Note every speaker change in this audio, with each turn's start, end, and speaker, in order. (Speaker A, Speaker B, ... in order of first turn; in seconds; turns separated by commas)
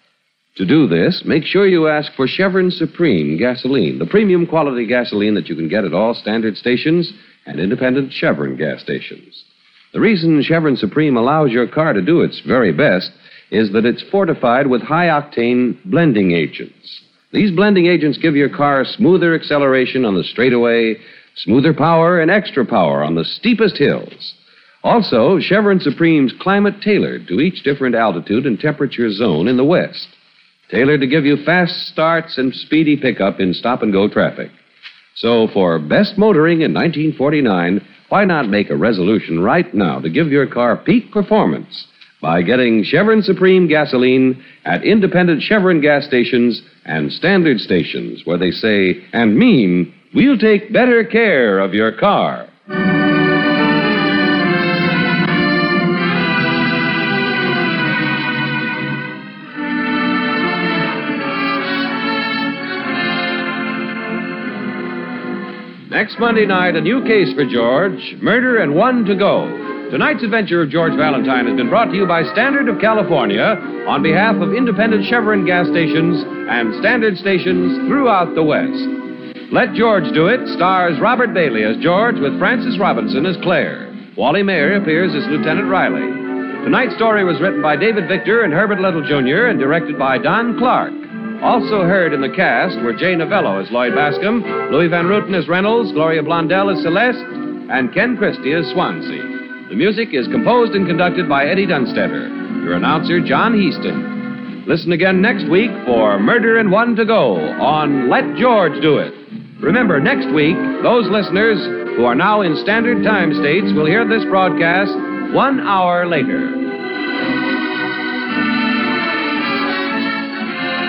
Speaker A: 0.6-30.1, Speaker A: 30.7-34.5, Speaker A: 35.1-52.5, Speaker A: 65.9-116.7